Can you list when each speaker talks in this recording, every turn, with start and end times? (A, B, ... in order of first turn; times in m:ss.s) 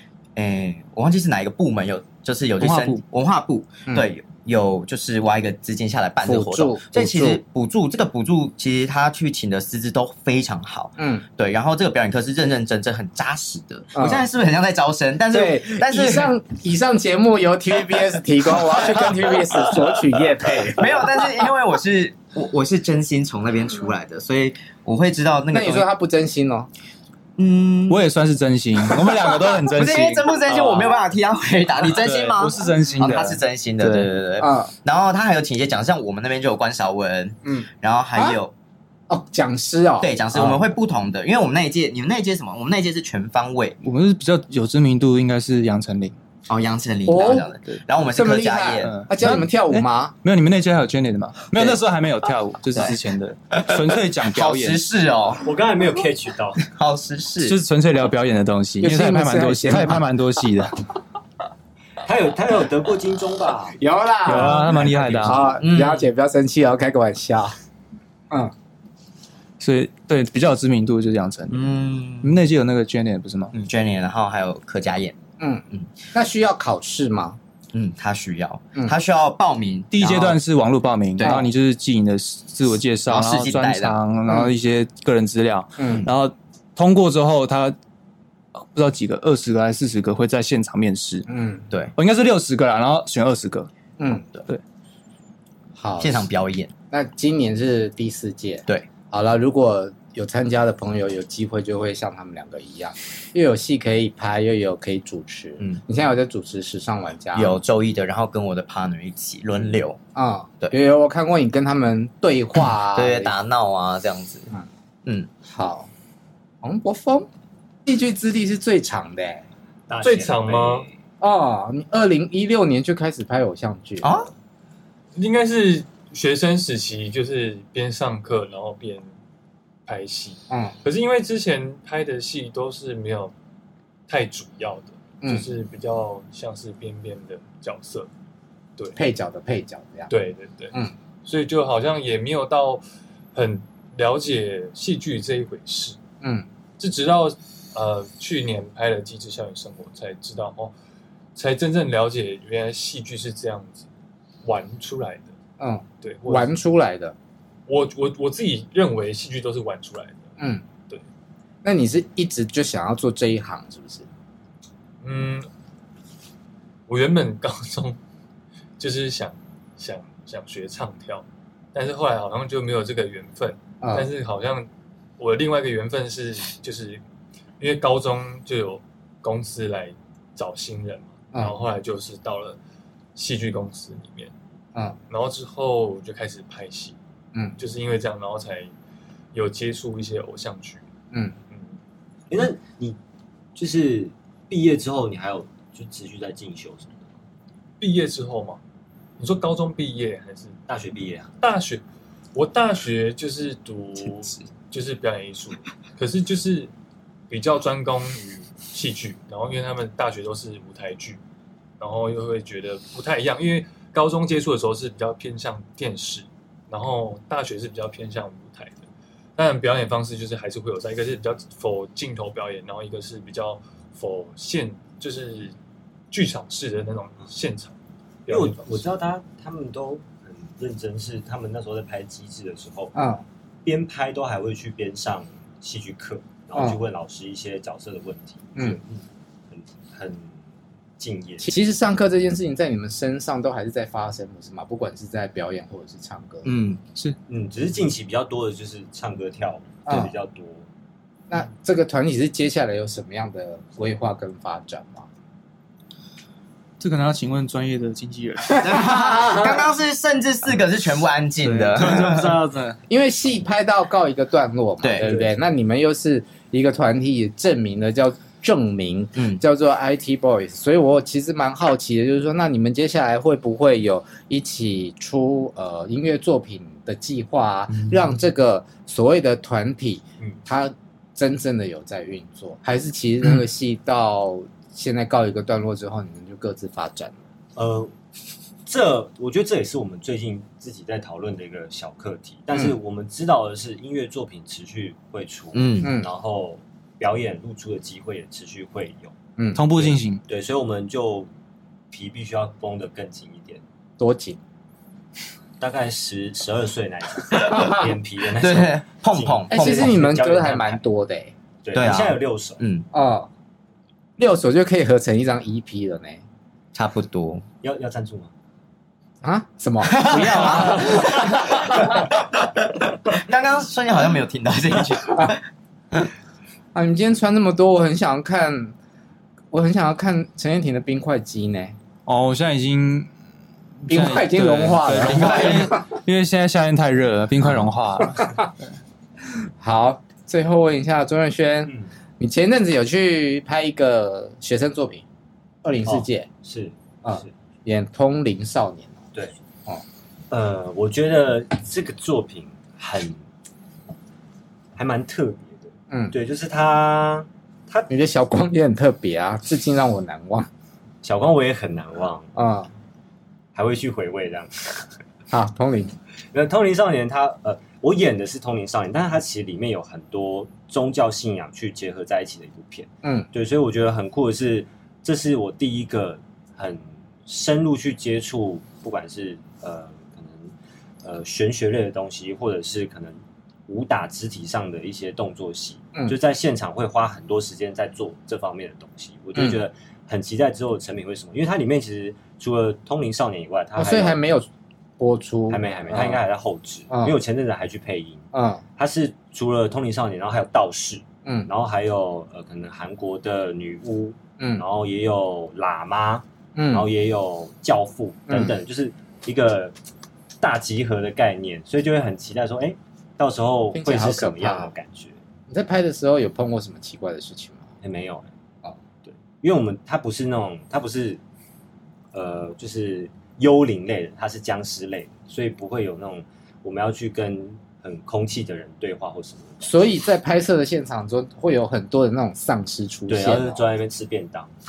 0:00.4-0:16.3 A
0:02.6-0:03.0 B
0:06.2-0:07.4 C
0:11.0-0:11.2 C
0:14.0-0:14.3 C
0:15.3-0:21.1 C
0:20.7-0:25.9 A
0:25.5-0:26.7 C
0:27.4-0:28.0 A
0:27.9-0:31.0 B
0:28.8-0:38.5 A
0:31.9-0:34.1 B
0:34.4-0:34.7 C
0:37.4-0:38.4 C
0:39.1-0:40.6 C
0:40.0-0:43.8 A
0:43.8-0:46.2 B
0:46.5-0:49.4 A
0:47.1-0:47.5 C
0:48.1-0:50.2 C
0:48.8-0:54.8 B
0:51.5-0:51.8 A
0:52.8-0:53.0 A
0:53.5-0:55.5 A
0:55.4-0:56.6 D
0:56.6-0:57.6 A
0:57.4-1:00.7 B
0:58.8-1:00.1 C
1:02.0-1:03.8 D
1:03.8-1:07.6 C
1:04.3-1:05.5 B
1:04.9-1:05.2 D
1:05.6-1:06.0 A
1:09.6-1:11.6 B
1:11.5-1:12.4 A
1:12.2-1:13.5 B
1:13.5-1:15.2 A
1:15.4-1:17.4 C
1:17.7-1:20.4 A
1:19.9-1:27.8 B
1:21.2-1:21.5 C
1:23.1-1:24.0 A
1:25.8-1:26.1 C
1:28.7-1:31.2 B
1:31.3-1:31.7 C
1:32.0-1:33.7 B
1:34.0-1:34.2 C
1:35.8-1:36.3 C
1:36.0-1:36.7 A
1:36.9-1:47.6 C
1:47.4-1:50.0 A
1:50.2-1:53.4 C
1:52.9-1:54.5 A
1:55.1-1:55.3 A
1:55.4-1:55.9 C
1:56.6-1:57.3 C
1:57.8-1:59.5 C
1:59.9-2:00.9 D
2:00.0-2:00.9 E
2:01.2-2:04.2 C
2:04.0-2:04.3 A
2:05.2-2:09.1 E
2:09.9-2:13.3 E
2:10.5-2:10.8 C
2:14.1-2:18.1 E
2:19.0-2:20.1 C
2:20.1-2:22.8 E
2:23.3-2:26.0 E
2:26.2-2:26.5 C
2:26.8-2:30.7 E
2:31.4-2:33.9 E
2:34.4-2:35.3 E
2:35.6-2:37.2 C
2:36.0-2:36.5 E
2:37.7-2:40.3 E
2:40.4-2:40.6 C
2:41.6-2:44.1 C
2:45.0-2:45.5 E
2:46.9-2:48.0 E
2:48.8-2:57.0 E
2:53.8-2:54.1 C
2:57.6-3:02.6 E
3:03.2-3:04.3 E
3:05.1-3:07.0 E
3:07.6-3:08.7 E
3:09.3-3:10.8 E
3:12.3-3:13.0 D
3:13.6-3:17.1 D
3:17.8-3:18.6 E
3:19.2-3:20.6 E
3:20.7-3:21.3 D
3:21.4-3:21.8 E
3:22.4-3:26.7 E
3:27.3-3:31.2 E
3:31.8-3:38.8 E
3:39.4-3:45.6 E
3:46.1-3:47.7 E
3:48.3-3:48.7 E
3:48.3-3:53.0 D
3:53.0-3:53.2 C
3:53.6-4:00.3 D
3:56.6-3:56.8 C
4:01.0-4:01.5 D
4:01.4-4:06.5 C
4:06.4-4:06.8 A
4:07.3-4:10.7 D
4:09.9-4:10.2 C
4:11.3-4:15.1 C
4:16.8-4:18.9 B
4:18.5-4:19.7 C
4:18.6-4:22.4 A
4:21.4-4:22.8 B
4:22.9-4:47.2 C
4:24.8-4:25.1 A
4:25.0-4:25.3 D
4:29.2-4:29.4 A
4:47.6-4:47.9 D
4:48.7-4:59.2 D
4:52.5-4:52.8 C
4:55.5-4:55.9 A
4:55.8-4:56.1 C
4:59.4-4:59.6 C
4:59.5-5:00.2 B
4:59.7-5:01.3 D
5:01.9-5:03.6 D
5:04.0-5:04.4 C
5:05.6-5:10.8 D
5:07.3-5:07.9 C
5:08.4-5:10.1 A
5:09.5-5:11.3 C
5:11.6-5:12.6 D
5:11.8-5:12.9 A
5:12.9-5:13.3 C
5:14.2-5:16.2 C
5:16.7-5:17.4 A
5:17.6-5:18.3 D
5:19.2-5:22.0 C
5:19.8-5:22.3 A
5:23.1-5:25.4 A
5:26.7-5:28.7 C
5:29.5-5:31.8 C
5:32.1-5:33.1 B
5:33.8-5:38.4 B
5:33.9-5:35.9 C
5:38.2-5:38.5 C
5:39.4-5:45.0 C
5:45.6-5:46.3 C
5:45.9-5:47.3 D
5:47.0-5:49.0 C
5:50.3-5:53.2 D
5:54.8-5:57.9 D
5:57.9-6:00.5 C
6:01.0-6:02.3 D
6:02.4-6:02.7 C
6:03.6-6:04.9 D
6:05.3-6:06.0 C
6:06.3-6:34.2 D
6:13.0-6:13.3 C
6:29.4-6:29.6 C
6:33.8-6:34.5 C
6:35.0-6:36.2 C
6:35.5-6:38.3 D
6:36.9-6:37.2 C
6:38.3-6:38.6 C
6:38.8-6:49.7 D
6:46.6-6:46.9 C
6:48.3-6:48.6 C
6:50.4-6:55.2 D
6:53.7-6:54.7 C
6:55.5-6:57.6 C
6:57.8-6:58.3 D
6:59.0-7:01.2 D
7:02.1-7:09.8 D
7:09.6-7:13.6 C
7:13.1-7:14.5 D